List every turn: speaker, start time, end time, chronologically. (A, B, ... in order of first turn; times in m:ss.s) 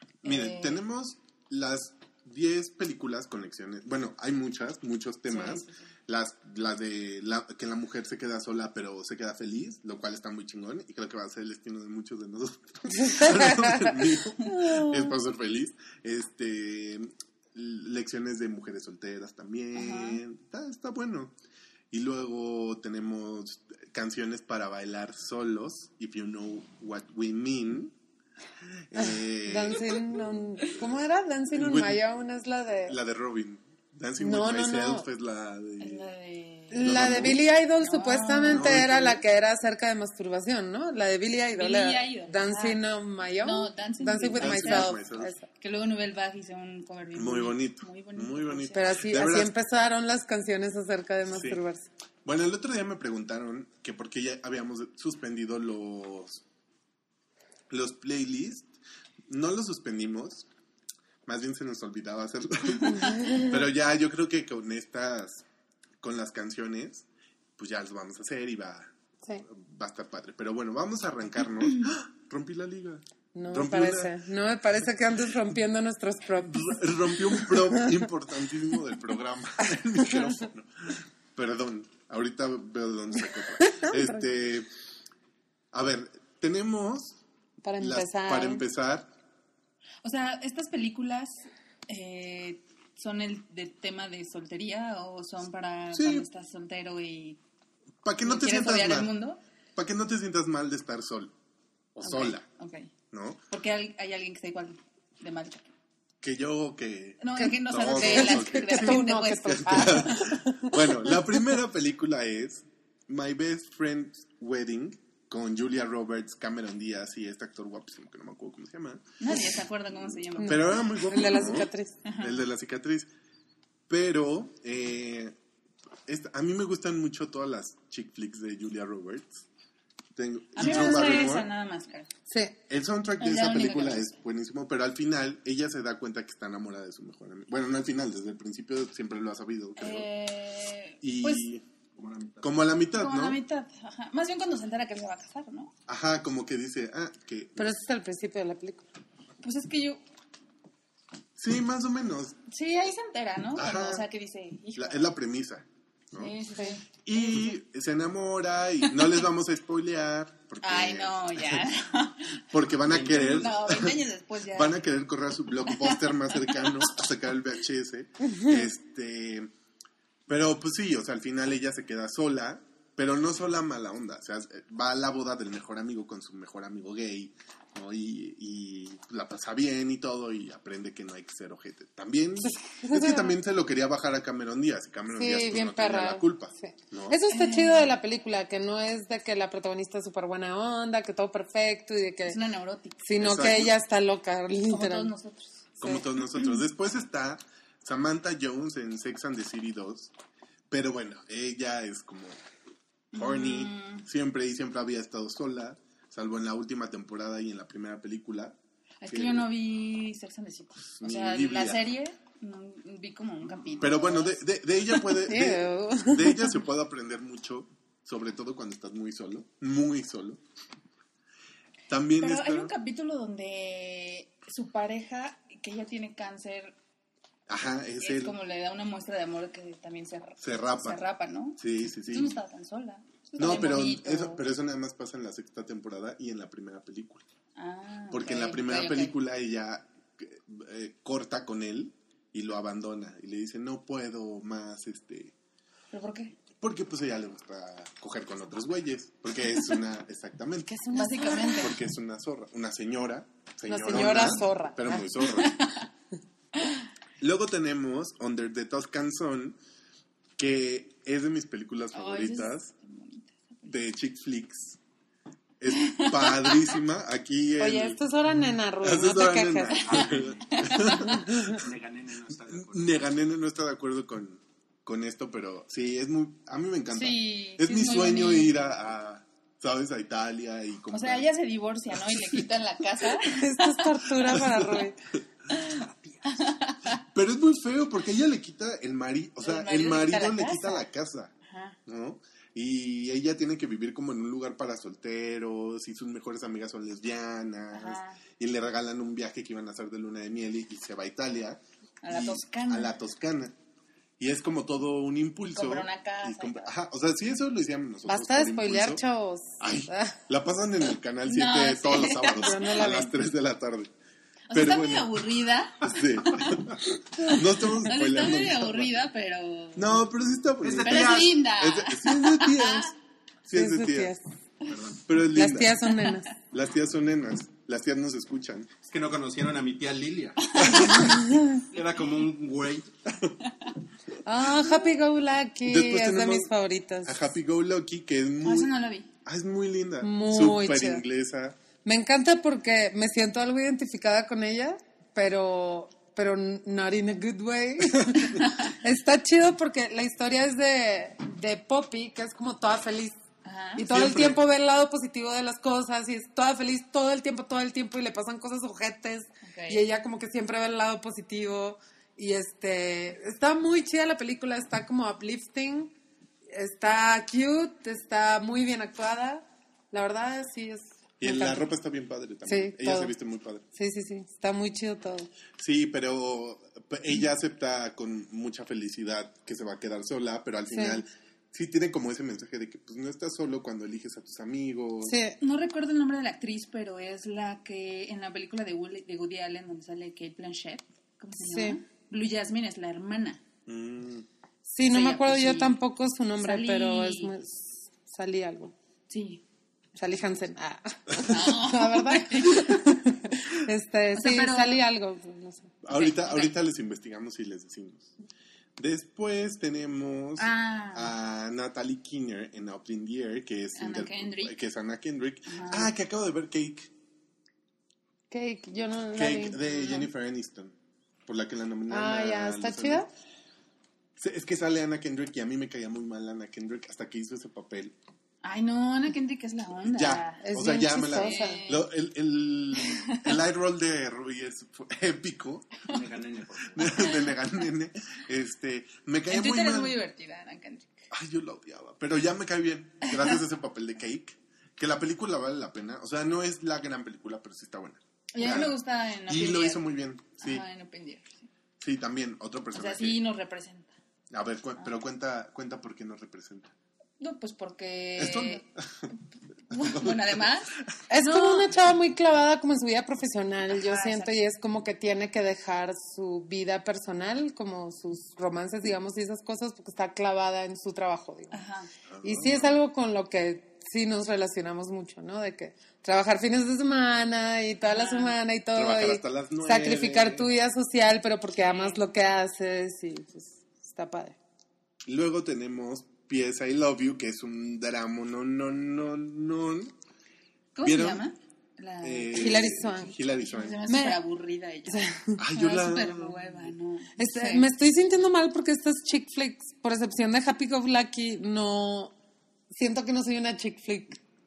0:00.2-0:21.3 A
0:00.2-0:00.8 B
0:05.3-0:05.8 B
0:13.0-0:14.0 C
0:14.6-0:15.1 C
0:19.7-0:20.2 B
0:21.9-0:27.9 A
0:28.9-0:30.0 A
0:29.0-0:33.0 C
0:31.5-0:32.0 A
0:32.9-0:36.1 A
0:34.2-0:35.1 C
0:35.8-0:38.8 B
0:36.7-0:45.5 C
0:36.8-0:37.4 A
0:38.5-0:39.2 A
0:41.6-0:42.8 B
0:43.4-0:45.0 B
0:44.4-0:45.3 A
0:45.5-0:49.0 B
0:47.2-0:49.5 A
0:48.7-0:51.9 C
0:51.3-0:51.6 A
0:52.2-0:56.4 A
0:57.7-0:58.7 A
0:59.3-1:00.5 A
1:01.2-1:05.4 A
1:03.1-1:03.5 C
1:06.0-1:07.1 A
1:07.6-1:08.9 A
1:09.5-1:14.1 A
1:13.3-1:17.9 C
1:16.4-1:24.7 A
1:23.6-1:24.2 C
1:25.7-1:27.2 A
1:27.6-1:28.6 C
1:27.8-1:29.1 A
1:30.0-1:37.4 B
1:35.9-1:36.3 A
1:38.0-1:39.2 A
1:38.2-1:39.4 B
1:39.8-1:41.3 A
1:41.9-1:42.4 A
1:42.0-1:42.9 B
1:43.1-1:43.4 A
1:43.5-1:45.7 B
1:46.2-1:59.5 A
1:47.2-1:50.4 B
1:47.4-1:51.4 C
1:59.2-2:02.4 B
2:00.4-2:03.1 A
2:00.4-2:02.0 C
2:03.9-2:05.3 A
2:06.1-2:09.5 A
2:10.2-2:11.5 A
2:10.6-2:12.1 B
2:12.3-2:12.5 C
2:12.7-2:20.1 A
2:13.2-2:14.2 B
2:19.8-2:21.5 B
2:21.0-2:21.6 A
2:22.0-2:22.6 D
2:22.4-2:23.4 A
2:23.0-2:25.7 B
2:25.9-2:27.8 A
2:27.6-2:28.8 C
2:29.4-2:30.0 B
2:31.4-2:32.4 A
2:32.5-2:35.1 B
2:33.6-2:34.0 A
2:34.8-2:36.3 A
2:36.2-2:37.5 B
2:37.0-2:41.7 A
2:38.8-2:39.2 B
2:40.6-2:42.4 B
2:42.4-2:44.0 A
2:42.8-2:43.6 D
2:43.2-2:44.8 B
2:44.5-2:49.5 A
2:45.6-2:47.0 B
2:48.3-2:48.6 C
2:50.3-3:07.2 A
3:02.4-3:03.4 C
3:05.1-3:12.4 C
3:07.3-3:08.0 B
3:12.3-3:13.7 B
3:13.0-3:15.1 C
3:13.2-3:13.7 A
3:14.7-3:16.6 B
3:15.8-3:20.1 A
3:20.7-3:22.4 A
3:23.1-3:24.0 B
3:23.1-3:28.6 A
3:29.0-3:34.4 B
3:29.1-3:29.5 A
3:30.8-3:31.9 A
3:33.8-3:40.4 A
3:35.1-3:36.6 C
3:41.9-3:42.7 A
3:42.2-3:46.8 B
3:47.5-3:48.4 A
3:48.0-3:54.4 B
3:50.4-3:51.0 A
3:51.6-3:52.4 A
3:53.4-3:57.2 A
3:57.6-3:59.2 B
3:58.1-4:05.3 A
4:05.9-4:06.4 B
4:06.6-4:10.7 A
4:10.7-4:11.7 C
4:10.9-4:11.8 B
4:11.5-4:15.7 A
4:13.7-4:15.1 C
4:13.9-4:14.4 B
4:15.2-4:15.9 B
4:16.6-4:16.8 B
4:17.2-4:19.6 A
4:20.4-4:22.7 A
4:21.9-4:23.8 B
4:23.6-4:24.8 A
4:25.6-4:28.0 A
4:25.7-4:26.8 B
4:27.6-4:30.0 C
4:28.8-4:31.6 A
4:29.7-4:31.4 B
4:29.9-4:33.0 D
4:32.5-4:41.3 A
4:36.9-4:38.6 B
4:40.9-4:44.0 B
4:42.0-4:42.4 A
4:43.2-4:45.0 C
4:44.2-4:44.8 A
4:45.5-4:47.0 B
4:45.9-4:46.2 D
4:47.0-4:51.3 A
4:49.4-4:50.9 B
4:51.4-4:51.8 B
4:51.9-5:03.5 A
4:57.7-4:58.2 B
5:02.0-5:02.9 B
5:04.2-5:09.0 A
5:05.5-5:06.7 B
5:08.1-5:10.2 C
5:09.6-5:13.9 A
5:11.2-5:13.1 B
5:12.2-5:13.1 C
5:14.5-5:16.8 B
5:14.5-5:15.3 A
5:15.8-5:19.0 A
5:17.5-5:20.0 B
5:19.8-5:24.1 A
5:20.6-5:21.3 D
5:20.6-5:22.9 B
5:23.5-5:24.2 C
5:24.6-5:25.0 D
5:25.0-5:25.7 A
5:25.3-5:26.3 C
5:25.9-5:26.2 B
5:26.5-5:28.7 A
5:28.8-5:32.9 D
5:30.5-5:31.2 B
5:30.6-5:31.1 A
5:31.1-5:31.6 C
5:33.4-5:33.7 B
5:34.2-5:37.3 C
5:35.6-5:36.5 A
5:37.0-5:41.6 A
5:38.4-5:39.1 B
5:40.0-5:41.0 C
5:41.8-5:53.2 C
5:48.3-5:48.7 B
5:53.4-5:53.9 B
5:53.8-6:05.9 C
5:53.8-5:54.4 A
5:59.4-5:59.8 B
6:06.5-6:11.7 C
6:11.2-6:13.6 A
6:12.5-6:13.1 C
6:13.7-6:15.3 C
6:15.6-6:25.2 A
6:20.7-6:21.0 C
6:25.0-6:25.4 C
6:25.4-6:33.4 B
6:31.4-6:31.8 C
6:33.7-6:34.3 A
6:34.7-6:38.8 C
6:34.9-6:35.8 B
6:36.4-6:37.3 B
6:39.1-6:39.4 B
6:40.0-6:45.7 C
6:41.2-6:43.0 B
6:44.2-6:44.8 B
6:45.8-6:48.1 A
6:45.9-6:46.6 B
6:48.8-6:56.9 A
6:50.4-6:51.1 B
6:53.8-6:54.6 B
6:55.4-6:55.9 B
6:58.3-7:00.1 C
6:59.1-7:00.8 A
7:01.2-7:03.0 A
7:01.9-7:03.1 C
7:04.2-7:07.9 A
7:08.4-7:10.4 B
7:09.8-7:15.9 A
7:10.4-7:11.6 C
7:11.0-7:11.9 B
7:12.8-7:13.4 B
7:15.9-7:17.2 D
7:16.7-7:20.0 A
7:19.3-7:21.1 B
7:21.1-7:30.6 A
7:23.0-7:23.4 B
7:28.3-7:29.9 B
7:30.4-7:31.5 B
7:31.8-7:33.2 A
7:32.7-7:33.9 B
7:34.3-7:36.7 A
7:37.2-7:41.8 B
7:38.2-7:39.1 A
7:39.7-7:40.4 A
7:41.1-7:51.6 C
7:43.7-7:44.4 B
7:51.5-7:51.9 B
7:52.1-7:52.8 A
7:52.2-8:04.4 C
7:57.9-7:58.4 B
7:58.7-8:00.5 A
8:01.6-8:02.0 B
8:05.0-8:09.9 A
8:10.8-8:12.9 B
8:10.8-8:11.2 A
8:12.0-8:13.8 A
8:12.3-8:13.2 C
8:13.5-8:17.7 B
8:13.9-8:14.2 C
8:14.9-8:15.4 C
8:15.4-8:16.4 A
8:17.2-8:22.1 C
8:22.7-8:24.2 C